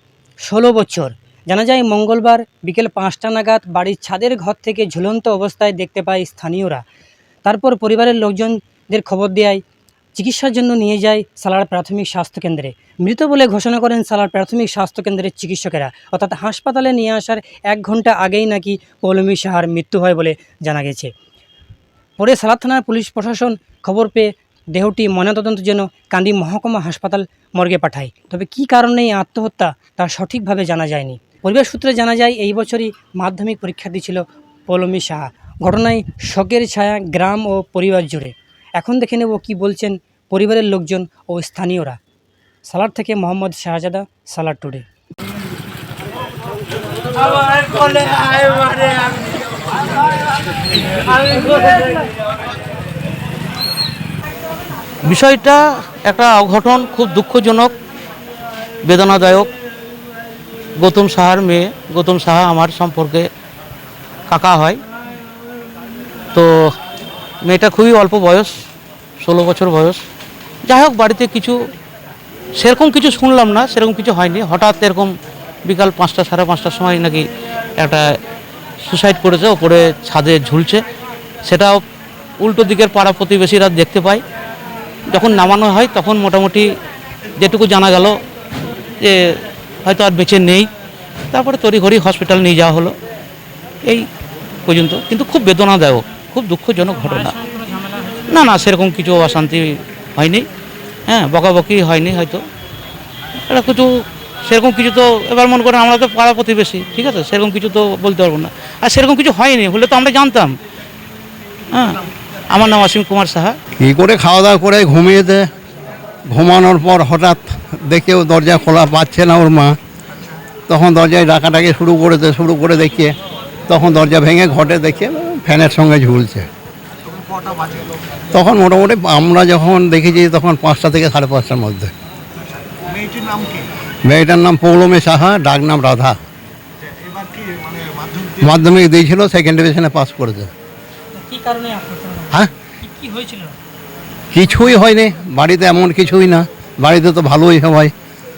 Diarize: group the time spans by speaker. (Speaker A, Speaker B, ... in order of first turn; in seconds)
Speaker A: 0.5-6.8, 7.5-9.6, 10.1-21.1, 22.2-42.0, 42.7-44.8, 97.0-98.4, 141.1-143.5
Speaker B: 47.2-49.3, 50.9-52.1, 55.0-57.7, 58.8-59.5, 60.8-63.3, 64.3-64.8, 66.3-66.8, 67.4-68.7, 69.2-70.0, 70.7-71.7, 72.6-75.1, 75.7-77.3, 77.8-78.2, 78.9-80.8, 81.5-81.8, 82.4-84.2, 85.1-86.7, 87.4-88.2, 89.0-90.7, 91.3-93.0, 94.7-97.3, 98.3-100.5, 101.1-102.4, 103.5-110.6, 111.7-113.6
Speaker C: 113.8-115.5, 116.3-119.8, 120.7-123.1, 123.7-126.5, 128.3-131.9, 134.0-136.2, 138.4-140.5, 144.3-147.9
Speaker D: 127.0-128.0, 132.4-133.7, 136.8-138.5